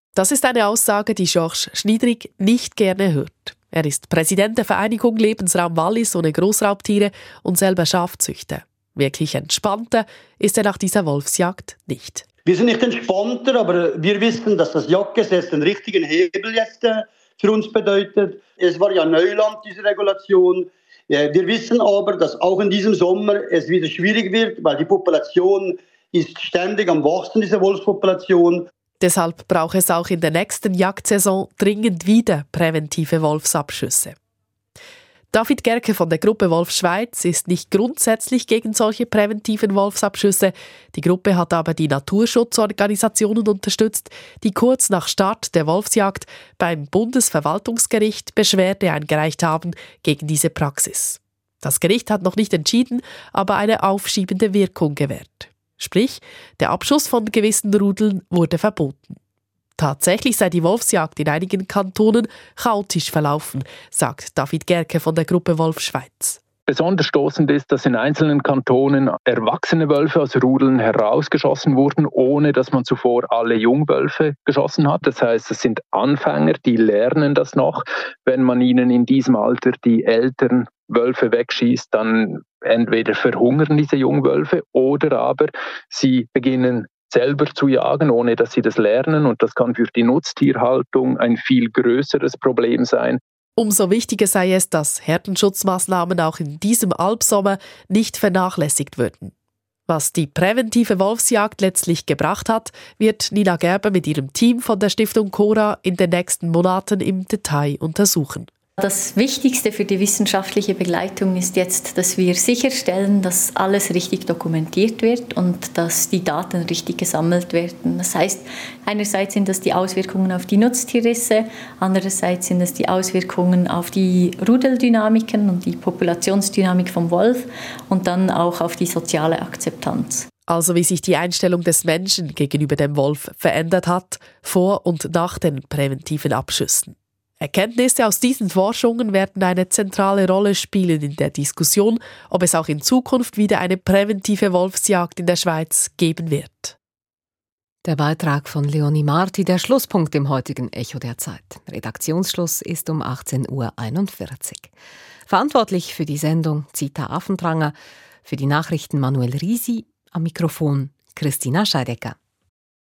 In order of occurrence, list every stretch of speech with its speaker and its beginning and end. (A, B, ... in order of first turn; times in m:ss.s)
0:00.2-0:12.2 A
0:12.4-0:28.7 B
0:29.0-0:34.2 A
0:35.3-0:59.1 A
0:59.8-1:06.4 A
1:06.7-1:33.2 C
1:33.6-1:39.3 A
1:39.9-1:48.5 A
1:48.8-2:10.3 D
2:10.5-2:26.7 A
2:27.8-2:34.7 E
2:35.3-2:42.1 E